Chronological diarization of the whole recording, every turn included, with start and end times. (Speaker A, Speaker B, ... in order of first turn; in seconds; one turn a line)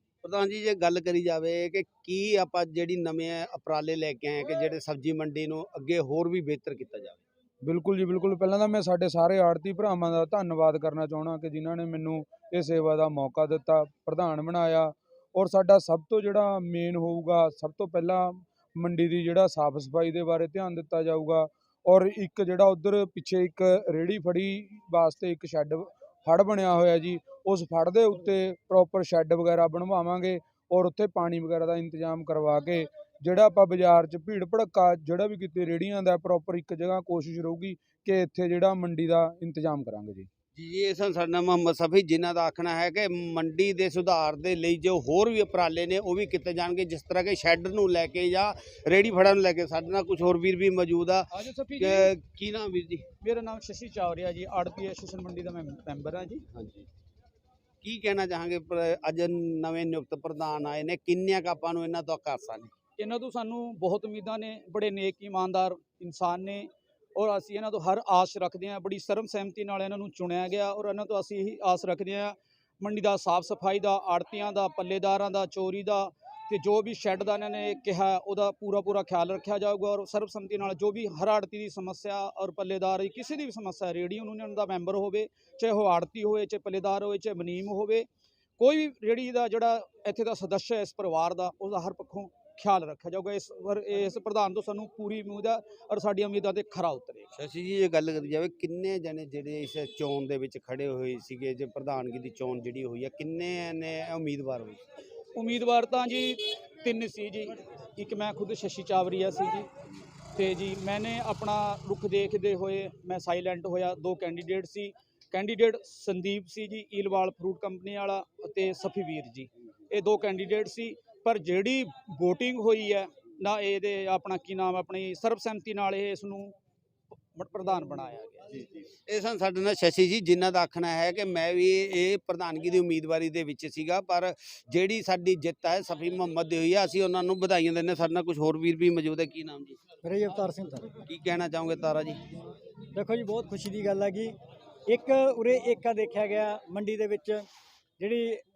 Speaker A: 0.2-7.2
Speaker B: 7.6-40.3
Speaker A: 40.5-51.3
Speaker C: 51.3-52.1
Speaker A: 51.8-53.1
Speaker C: 53.2-56.4
Speaker A: 56.5-56.9
Speaker A: 57.8-62.7
Speaker C: 63.0-88.1
Speaker C: 88.6-97.3
Speaker A: 97.3-104.8
Speaker C: 105.4-109.7
Speaker C: 110.4-126.5
Speaker C: 127.3-128.6
Speaker A: 128.5-139.8
Speaker D: 140.0-140.9
Speaker A: 141.1-142.2
Speaker D: 142.9-144.3
Speaker D: 144.9-147.4
Speaker D: 148.0-148.4